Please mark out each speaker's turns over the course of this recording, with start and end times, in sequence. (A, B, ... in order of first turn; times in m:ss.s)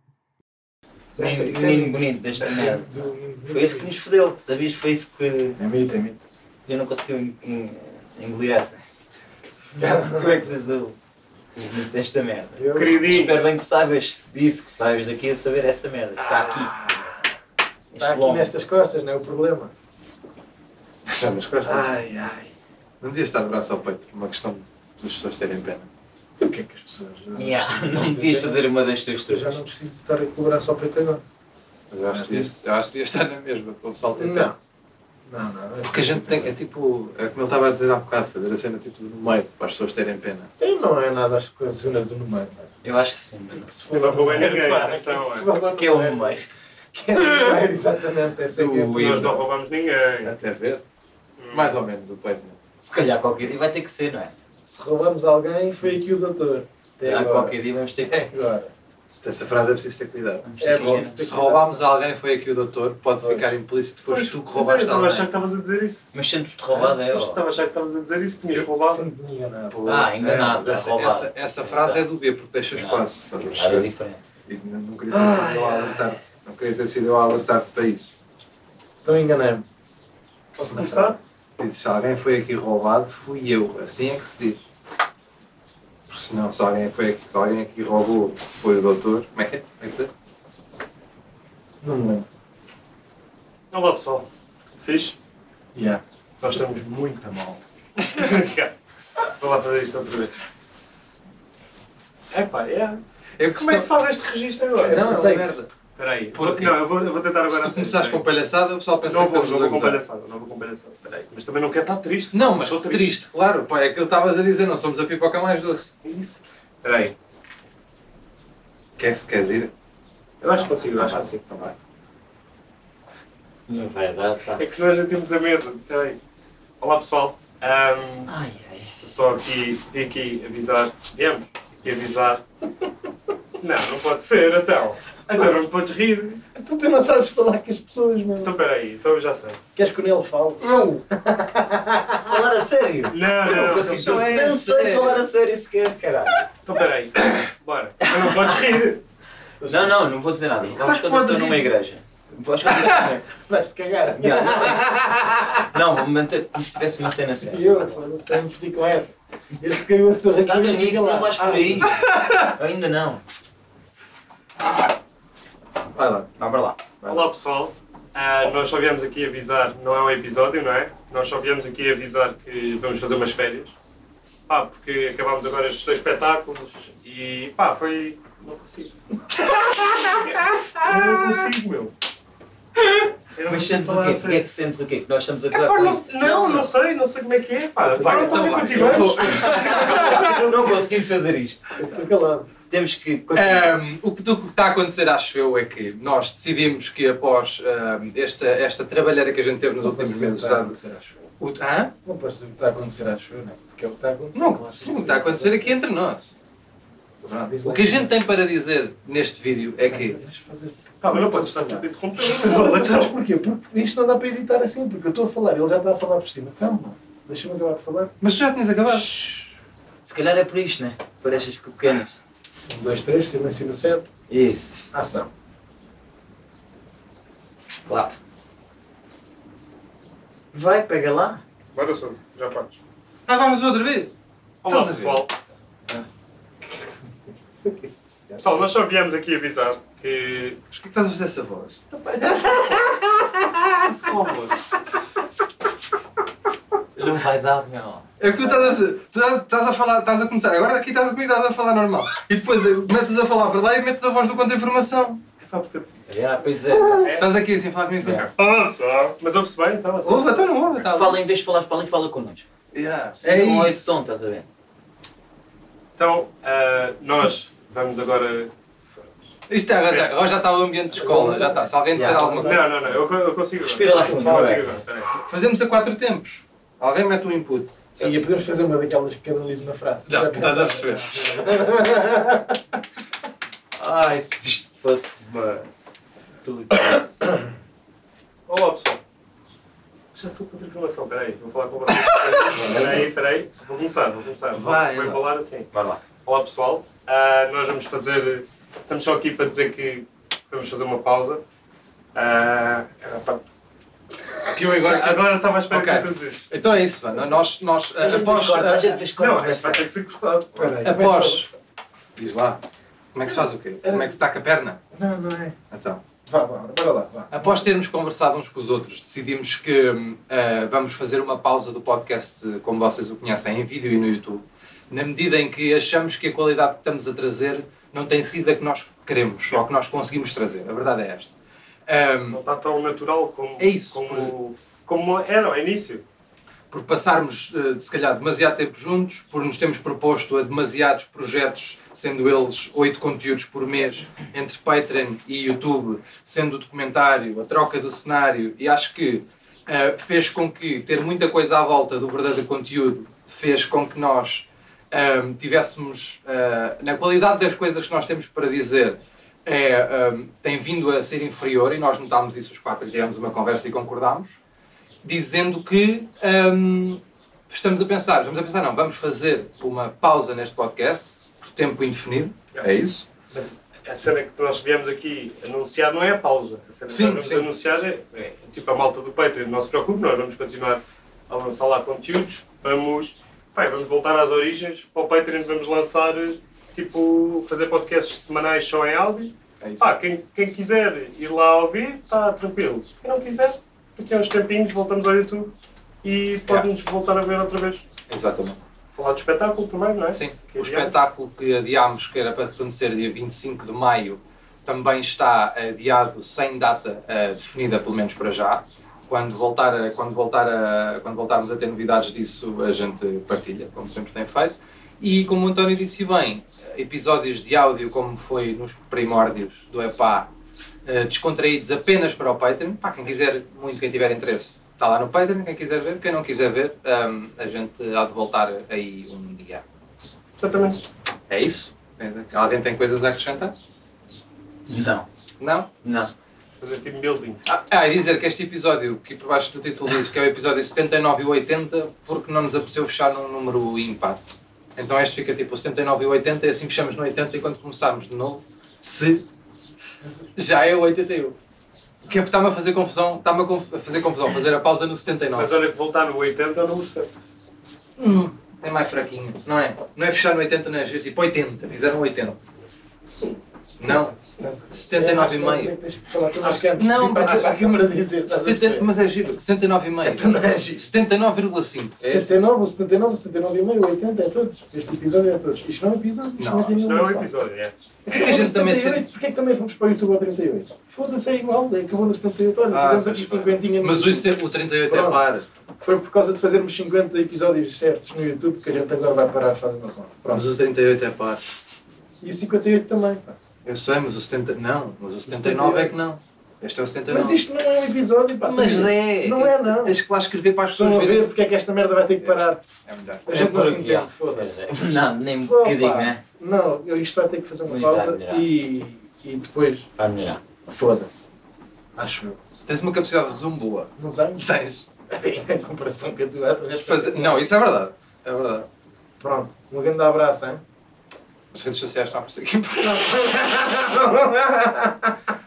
0:01.2-0:03.9 A
0:01.2-0:05.6 B
0:05.6-0:06.2 A
0:06.6-0:08.8 B
0:09.8-0:11.0 B
0:09.8-0:10.3 A
0:11.6-0:16.7 B
0:12.6-0:13.2 A
0:12.7-0:13.4 C
0:16.5-0:17.1 D
0:17.9-0:18.5 B
0:18.0-0:19.7 A
0:21.0-0:21.9 D
0:21.8-0:22.3 C
0:23.0-0:25.9 D
0:26.4-0:28.6 A
0:27.3-0:29.6 B
0:29.2-0:31.2 A
0:31.9-0:34.5 D
0:32.0-0:32.5 A
0:34.1-0:34.6 A
0:35.3-0:36.5 A
0:35.9-0:40.5 D
0:40.6-0:42.7 A
0:42.8-0:43.7 B
0:43.5-0:46.4 A
0:44.1-0:45.5 C
0:45.7-0:46.4 B
0:46.9-0:49.4 A
0:48.5-0:49.4 D
0:48.9-0:50.3 C
0:50.2-0:50.8 D
0:51.4-0:51.8 C
0:51.5-0:52.6 D
0:52.8-0:54.3 B
0:54.6-0:57.6 A
0:57.0-0:58.3 B
0:58.1-0:58.7 A
0:59.2-1:05.3 D
1:00.4-1:01.2 B
1:00.6-1:01.8 A
1:03.2-1:03.5 A
1:04.1-1:06.0 C
1:06.1-1:07.4 B
1:06.7-1:09.0 C
1:08.8-1:09.8 A
1:09.7-1:13.9 D
1:09.8-1:12.1 B
1:12.7-1:14.2 B
1:14.5-1:18.1 D
1:15.1-1:16.1 C
1:19.0-1:19.6 A
1:20.6-1:21.2 C
1:20.6-1:21.2 A
1:21.6-1:24.6 D
1:26.1-1:30.1 D
1:31.8-1:32.2 A
1:33.7-1:34.2 C
1:34.8-1:35.2 C
1:35.7-1:36.0 A
1:36.4-1:38.7 C
1:39.3-1:40.4 C
1:42.3-1:43.0 C
1:43.4-1:43.9 D
1:43.6-1:45.1 C
1:44.8-1:45.7 D
1:44.8-1:45.6 A
1:46.0-1:48.3 C
1:46.3-1:46.8 D
1:47.5-1:50.0 D
1:49.0-1:53.2 C
1:52.3-1:55.9 D
1:56.0-1:57.1 C
1:59.0-1:59.7 D
2:00.4-2:01.4 C
2:00.5-2:01.7 D
2:03.7-2:04.6 B
2:04.6-2:06.2 C
2:06.8-2:08.3 C
2:08.3-2:08.9 B
2:09.0-2:12.4 C
2:13.6-2:16.4 C
2:16.5-2:18.5 A
2:18.4-2:19.6 C
2:19.7-2:22.4 A
2:22.2-2:26.5 B
2:23.1-2:24.3 C
2:23.5-2:25.2 D
2:26.6-2:29.0 C
2:29.6-2:30.0 A
2:29.7-2:33.2 B
2:30.8-2:31.7 D
2:33.3-2:35.5 A
2:34.1-2:35.0 B
2:35.6-2:38.1 B
2:37.4-2:41.9 A
2:40.4-2:43.2 B
2:45.9-2:46.3 D
2:46.3-2:46.9 B
2:47.1-2:53.7 C
2:54.5-2:58.9 C
3:00.8-3:01.9 C
3:03.3-3:04.4 C
3:03.4-3:06.1 B
3:05.5-3:10.8 C
3:06.2-3:06.7 D
3:07.8-3:09.2 A
3:08.0-3:10.5 D
3:09.3-3:11.7 B
3:11.7-3:12.5 A
3:12.7-3:13.8 B
3:13.3-3:20.8 D
3:19.8-3:21.2 A
3:21.4-3:21.9 D
3:22.0-3:25.8 A
3:24.3-3:26.3 D
3:27.2-3:28.2 A
3:27.3-3:30.2 D
3:29.8-3:38.1 A
3:31.0-3:33.1 C
3:38.2-3:39.1 D
3:40.0-3:42.2 B
3:42.7-3:44.1 A
3:44.3-3:44.8 B
3:44.9-3:45.3 A
3:47.8-3:48.2 B
3:50.5-3:51.4 B
3:51.7-3:52.8 C
3:53.3-3:54.1 D
3:54.6-3:55.3 C
3:54.6-3:55.3 D
3:57.8-3:58.4 A
3:58.4-4:00.6 C
4:00.7-4:03.0 D
4:03.8-4:04.5 C
4:06.9-4:08.8 B
4:08.2-4:15.2 D
4:15.4-4:16.0 C
4:16.1-4:17.2 B
4:17.0-4:17.3 C
4:17.0-4:18.3 D
4:18.4-4:20.5 C
4:20.0-4:21.2 D
4:20.8-4:22.4 B
4:22.7-4:23.8 D
4:23.2-4:24.5 B
4:26.0-4:28.5 C
4:29.5-4:32.6 D
4:29.9-4:30.2 C
4:30.9-4:33.0 A
4:31.9-4:32.5 B
4:32.4-4:35.1 C
4:33.6-4:34.7 B
4:33.9-4:34.6 A
4:35.1-4:38.1 D
4:38.0-4:42.5 A
4:40.0-4:41.4 D
4:43.8-4:45.6 B
4:46.4-4:47.0 B
4:48.5-4:49.0 C
4:50.1-4:55.7 C
4:52.0-4:52.9 D
4:54.5-4:55.3 D
4:55.7-4:56.0 B
4:56.2-5:01.4 C
5:02.1-5:03.4 C
5:04.5-5:09.0 D
5:04.8-5:06.5 C
5:08.0-5:09.9 B
5:09.2-5:10.8 C
5:10.5-5:11.5 A
5:10.8-5:11.5 D
5:12.2-5:12.6 D
5:13.1-5:14.8 D
5:13.3-5:14.2 A
5:14.9-5:15.5 A
5:15.7-5:16.0 D
5:16.2-5:17.7 A
5:17.3-5:31.3 D
5:31.9-5:32.4 D
5:32.3-5:36.0 C
5:33.6-5:34.3 D
5:36.7-6:04.3 D
6:05.0-6:13.0 D
6:13.3-6:37.8 C
6:16.9-6:17.5 D
6:29.6-6:29.9 D
6:38.1-6:38.6 D
6:38.9-6:41.0 C
6:40.1-7:00.3 D
7:00.8-7:09.6 D
7:10.4-7:10.8 C
7:11.3-7:13.5 D
7:14.7-7:15.0 B
7:15.4-7:15.7 D
7:15.8-7:16.1 B
7:16.6-7:17.4 C
7:17.4-7:29.2 D
7:30.4-7:31.3 D
7:32.0-7:35.5 D
7:35.3-7:37.1 C
7:38.0-7:42.4 D
7:43.1-7:43.4 C
7:43.8-7:44.1 D
7:43.9-7:48.9 A
7:44.7-7:45.7 D
7:46.8-7:47.6 D
7:48.2-7:52.3 D
7:50.0-7:50.9 A
7:52.0-7:57.3 A
7:56.4-7:56.8 D
7:56.7-7:57.7 C
7:58.0-8:05.2 A
7:58.1-7:59.0 D
8:02.7-8:05.4 D
8:05.8-8:10.5 A
8:10.3-8:11.4 D
8:12.2-8:13.4 A
8:13.6-8:17.4 D
8:15.2-8:16.0 A
8:17.1-8:20.0 A
8:18.4-8:21.3 D
8:20.7-8:22.6 A
8:22.2-8:23.6 D
8:23.2-8:24.6 A
8:23.3-8:26.2 B
8:25.4-8:29.9 A
8:27.6-8:28.5 B
8:30.0-8:30.4 B
8:30.7-8:31.2 A
8:32.0-8:32.4 A
8:32.7-8:34.8 D
8:34.0-8:34.5 A
8:35.1-8:37.4 A
8:36.8-8:38.7 D
8:39.2-8:40.6 A
8:41.5-8:43.4 D
8:42.8-8:45.0 A